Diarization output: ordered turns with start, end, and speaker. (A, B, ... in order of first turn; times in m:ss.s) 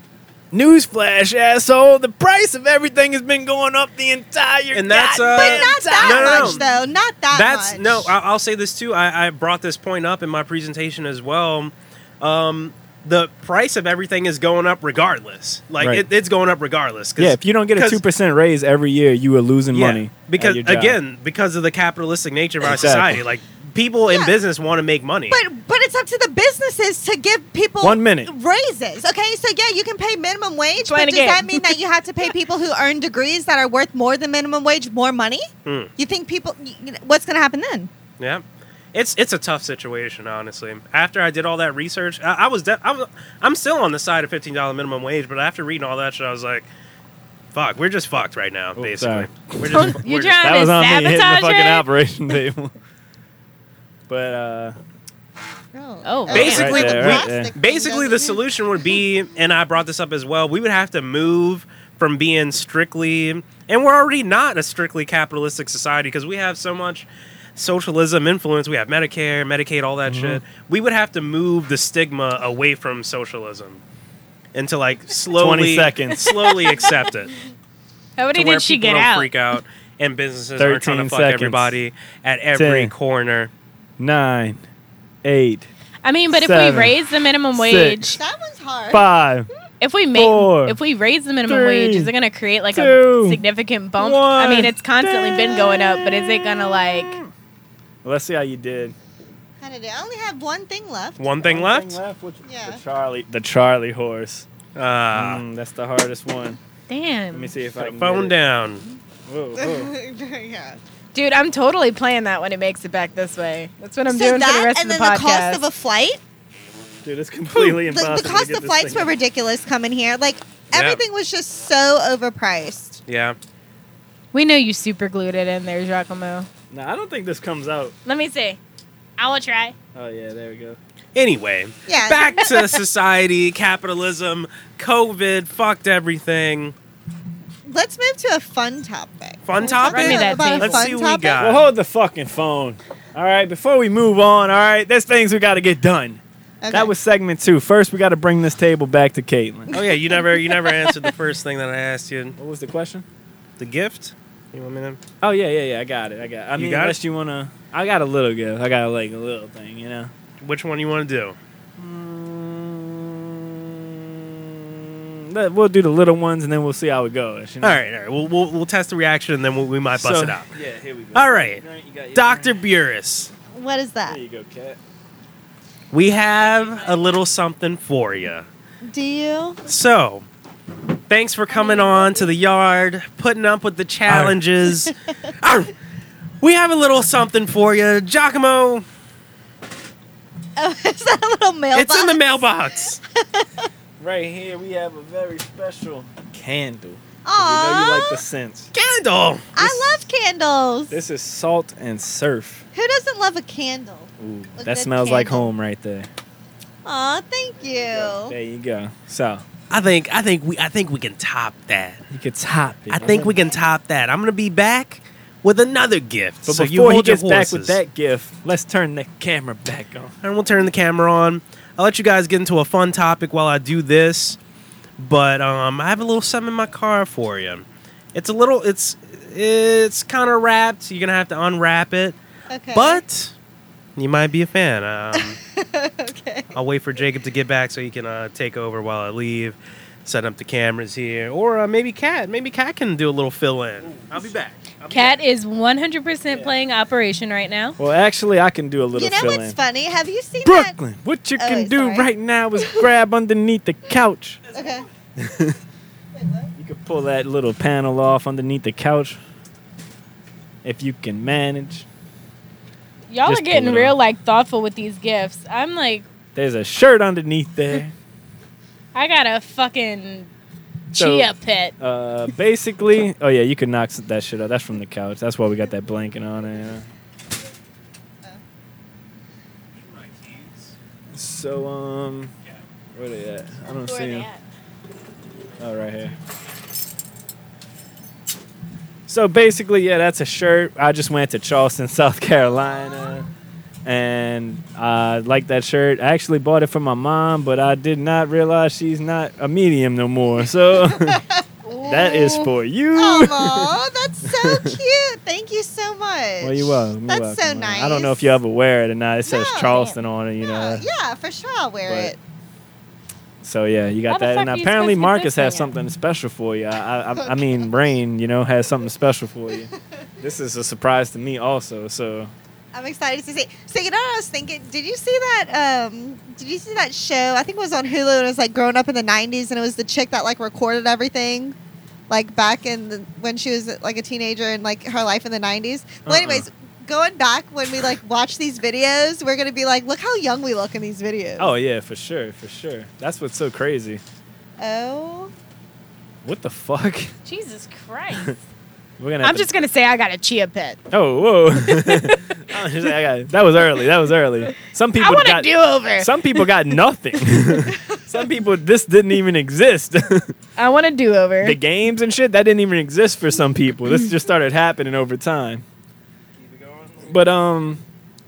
0:00.5-0:06.6 A
0:04.7-0:06.7 B
0:05.3-0:08.1 C
0:07.3-0:18.0 B
0:15.8-0:16.1 A
0:17.2-0:21.0 A
0:19.7-0:25.4 B
0:22.6-0:23.2 A
0:24.0-0:24.4 C
0:25.3-0:37.9 C
0:27.8-0:28.3 A
0:30.8-0:31.8 D
0:38.2-0:46.7 B
0:47.5-0:50.4 B
0:48.8-0:52.7 A
0:49.7-0:51.9 D
0:54.1-0:54.8 A
0:55.7-0:58.4 C
0:56.0-0:56.8 D
0:56.3-1:13.8 B
0:56.3-0:57.5 A
1:10.1-1:10.4 A
1:14.5-1:17.3 B
1:15.3-1:16.4 A
1:16.5-1:16.9 D
1:18.2-1:19.5 D
1:18.3-1:23.5 B
1:20.6-1:21.8 A
1:22.5-1:22.9 A
1:24.0-1:24.6 A
1:25.2-1:25.7 A
1:26.0-1:28.2 D
1:26.3-1:27.0 A
1:27.5-1:28.2 A
1:28.2-1:29.0 C
1:28.9-1:29.5 A
1:29.8-1:37.2 D
1:30.1-1:30.8 A
1:31.5-1:32.1 A
1:32.7-1:33.4 A
1:34.0-1:37.3 A
1:38.0-1:39.0 A
1:39.6-1:41.3 C
1:41.2-1:42.0 B
1:41.4-1:44.5 A
1:42.4-1:42.8 C
1:44.8-1:45.4 B
1:45.1-1:46.6 A
1:46.9-1:47.5 D
1:47.3-1:48.4 A
1:47.8-1:48.8 B
1:49.3-1:49.9 A
1:49.6-1:50.8 C
1:51.1-1:55.6 D
1:54.1-1:56.2 C
1:57.0-1:59.1 A
1:57.5-2:03.0 C
2:00.7-2:01.0 B
2:03.1-2:03.4 B
2:04.3-2:06.5 D
2:06.7-2:08.0 A
2:08.0-2:08.6 D
2:09.2-2:09.8 D
2:09.9-2:10.8 A
2:11.2-2:16.8 B
2:11.9-2:12.7 C
2:17.6-2:21.4 C
2:19.4-2:21.7 B
2:19.9-2:20.9 D
2:21.4-2:29.8 A
2:26.6-2:26.9 C
2:29.7-2:32.4 B
2:32.4-2:33.0 A
2:33.6-2:35.0 B
2:35.2-2:40.1 A
2:36.6-2:37.0 B
2:40.4-2:41.4 B
2:41.8-2:47.8 A
2:47.6-2:50.5 B
2:49.9-2:52.6 A
2:51.1-2:51.6 B
2:52.1-2:53.3 B
2:53.5-2:54.2 C
2:54.1-2:54.8 A
2:55.9-2:58.5 B
2:58.8-2:59.6 C
2:59.7-3:00.2 B
3:01.1-3:05.7 B
3:04.1-3:04.4 A
3:06.4-3:08.8 B
3:10.6-3:12.4 C
3:11.7-3:13.0 B
3:13.2-3:13.7 C
3:14.0-3:18.7 A
3:17.2-3:18.2 C
3:18.7-3:19.7 B
3:19.5-3:21.0 C
3:20.9-3:22.7 A
3:22.7-3:25.5 C
3:24.2-3:26.1 A
3:26.8-3:28.4 C
3:27.9-3:29.4 A
3:29.7-3:32.0 B
3:32.1-3:33.4 A
3:32.9-3:37.8 B
3:36.4-3:40.1 A
3:40.2-3:44.4 B
3:45.0-3:52.2 B
3:52.5-3:53.0 C
3:52.7-3:53.3 B
3:54.0-3:55.4 B
3:55.1-3:56.6 C
3:56.5-4:05.2 B
4:04.9-4:07.8 D
4:07.8-4:09.6 A
4:08.9-4:10.8 C
4:10.4-4:14.4 A
4:11.4-4:12.1 C
4:14.5-4:14.9 C
4:15.2-4:15.6 A
4:16.1-4:16.5 C
4:16.6-4:19.2 A
4:20.6-4:21.9 A
4:23.1-4:26.1 D
4:23.2-4:24.0 A
4:26.4-4:27.9 A
4:28.9-4:30.3 D
4:30.9-4:31.7 D
4:31.0-4:31.3 A
4:31.8-4:36.9 A
4:39.9-4:40.7 B
4:41.1-4:42.3 A
4:43.0-4:44.3 A
4:43.8-4:44.4 D
4:45.6-4:46.2 A
4:49.1-4:53.3 A
4:53.8-5:01.2 A
5:00.9-5:02.2 C
5:01.7-5:02.5 D
5:01.8-5:03.7 A
5:03.0-5:08.4 C
5:04.3-5:04.8 A
5:06.4-5:10.9 A
5:09.3-5:09.8 C
5:09.6-5:10.0 D
5:10.4-5:12.2 C
5:11.9-5:12.1 A
5:13.4-5:19.7 A
5:14.1-5:15.7 D
5:17.2-5:17.6 C
5:20.2-5:22.3 A
5:22.7-5:31.6 C
5:32.1-5:41.5 C
5:36.0-5:36.5 A
5:41.4-5:44.0 A
5:44.6-5:45.3 C
5:46.2-5:47.1 A
5:47.3-5:48.4 D
5:49.0-5:49.5 A
5:49.2-5:50.8 D
5:50.9-6:00.3 A
5:51.8-5:52.4 D
5:55.0-5:56.5 D
6:00.6-6:01.6 D
6:01.4-6:05.6 A
6:06.9-6:07.8 A